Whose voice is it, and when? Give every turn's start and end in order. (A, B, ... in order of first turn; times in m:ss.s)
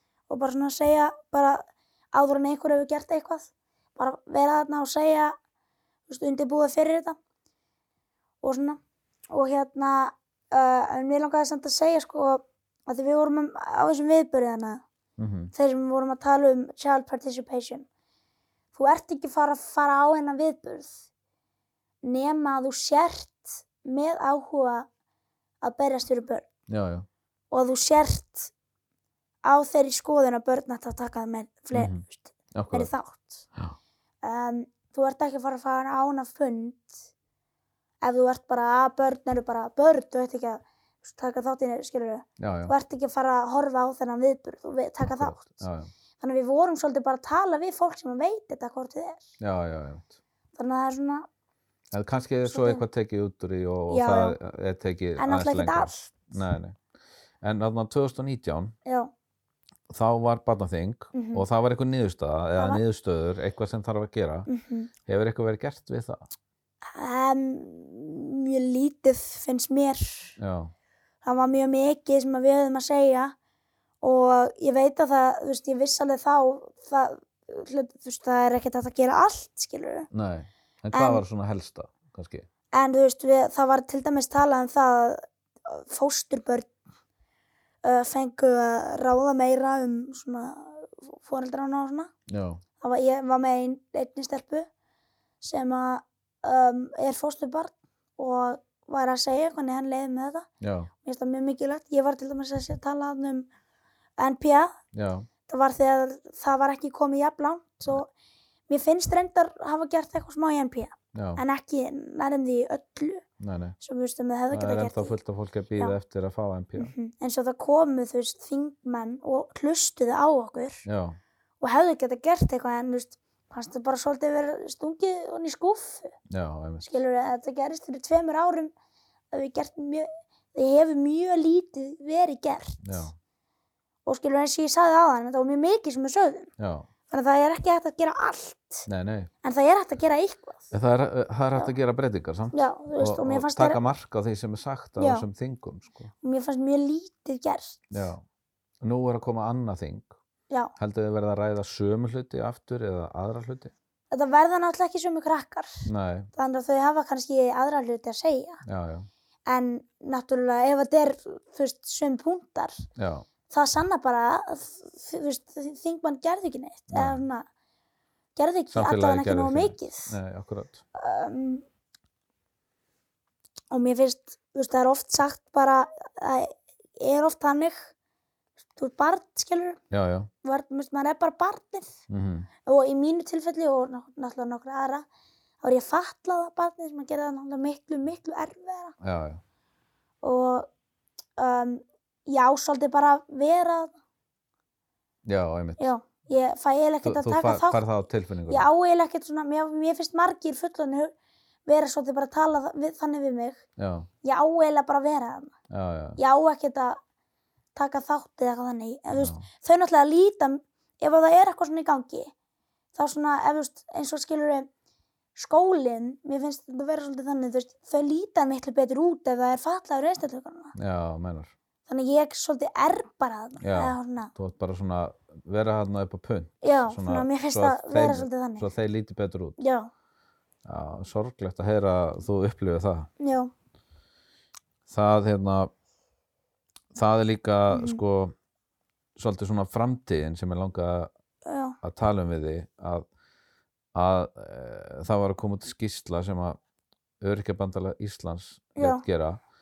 0:00.3-0:05.4 A
0:06.1-0:07.2 A
0:08.4-0:08.8 A
0:09.3-0:14.8 A
0:15.2-0:15.5 B
0:15.5-0:17.9 A
0:18.7-0:21.0 A
0:22.0-0:24.9 A
0:25.6-0:26.5 A
0:26.7-0:27.1 B
0:27.5-0:28.5 A
0:29.4-0:33.5 A
0:31.7-0:32.9 B
0:34.2-0:36.9 A
0:38.0-0:45.6 A
0:42.4-0:42.8 B
0:45.0-0:45.9 B
0:46.2-0:49.3 A
0:49.4-0:50.2 B
0:50.6-0:51.3 A
0:51.9-0:56.8 B
0:52.5-0:52.8 A
0:53.9-0:54.4 A
0:55.2-0:56.2 A
0:57.4-0:58.7 B
0:58.8-0:59.1 A
0:59.9-1:04.5 B
1:01.1-1:01.5 A
1:02.6-1:02.8 A
1:04.5-1:04.9 A
1:05.1-1:06.3 B
1:06.8-1:10.4 A
1:10.4-1:10.7 B
1:11.2-1:13.4 A
1:14.0-1:20.1 A
1:20.1-1:22.5 B
1:20.9-1:21.2 A
1:22.7-1:26.7 A
1:27.8-1:32.1 A
1:32.3-1:32.6 B
1:32.8-1:34.7 A
1:35.4-1:40.5 A
1:40.6-1:40.9 B
1:41.0-1:43.5 A
1:44.2-1:44.8 A
1:44.9-1:45.3 B
1:45.5-1:48.1 A
1:48.7-1:53.2 A
1:51.1-1:51.4 B
1:53.4-1:53.8 B
1:53.8-1:55.2 A
1:54.5-1:56.9 B
1:56.8-2:00.8 A
2:00.9-2:01.2 B
2:01.6-2:06.2 A
2:06.3-2:07.0 B
2:06.8-2:08.7 A
2:09.3-2:13.1 A
2:12.8-2:13.1 B
2:14.0-2:16.5 A
2:16.6-2:16.9 B
2:17.1-2:18.9 A
2:18.9-2:19.3 B
2:19.4-2:20.7 A
2:20.7-2:26.1 B
2:22.5-2:23.8 A
2:25.0-2:25.3 A
2:26.2-2:28.1 A
2:27.9-2:28.2 B
2:28.8-2:30.2 B
2:30.8-2:33.7 B
2:34.1-2:38.6 A
2:35.8-2:36.3 B
2:38.6-2:39.1 B
2:39.5-2:42.9 A
2:43.0-2:43.3 B
2:43.5-2:47.5 A
2:46.9-2:47.2 B
2:48.4-2:50.2 A
2:48.7-2:50.8 B
2:51.0-2:51.6 A
2:53.7-2:57.9 A
2:58.8-2:59.8 A
2:59.9-3:00.3 B
3:00.4-3:02.0 A
3:02.1-3:02.5 B
3:02.6-3:05.1 A
3:05.6-3:09.0 A
3:09.0-3:09.4 B
3:10.2-3:10.7 A
3:11.4-3:14.0 A
3:15.2-3:15.9 B
3:15.8-3:17.8 A
3:17.0-3:18.7 B
3:18.5-3:21.1 A
3:21.7-3:23.6 A
3:23.8-3:24.1 B
3:24.2-3:25.5 A
3:25.7-3:26.2 B
3:26.2-3:27.0 A
3:27.8-3:32.3 A
3:29.1-3:29.5 B
3:32.9-3:34.7 A
3:35.4-3:40.7 A
3:40.8-3:41.5 B
3:41.9-3:44.3 A
3:43.6-3:49.6 B
3:46.6-3:48.7 A
3:49.6-3:49.9 A
3:50.6-3:53.1 B
3:53.2-3:53.5 A
3:54.9-3:55.7 B
3:56.9-3:58.3 B
3:57.7-3:58.0 A
3:59.2-4:01.1 B
4:01.4-4:01.8 A
4:01.8-4:03.1 B
4:03.9-4:06.6 B
4:07.2-4:09.4 B
4:08.8-4:09.0 A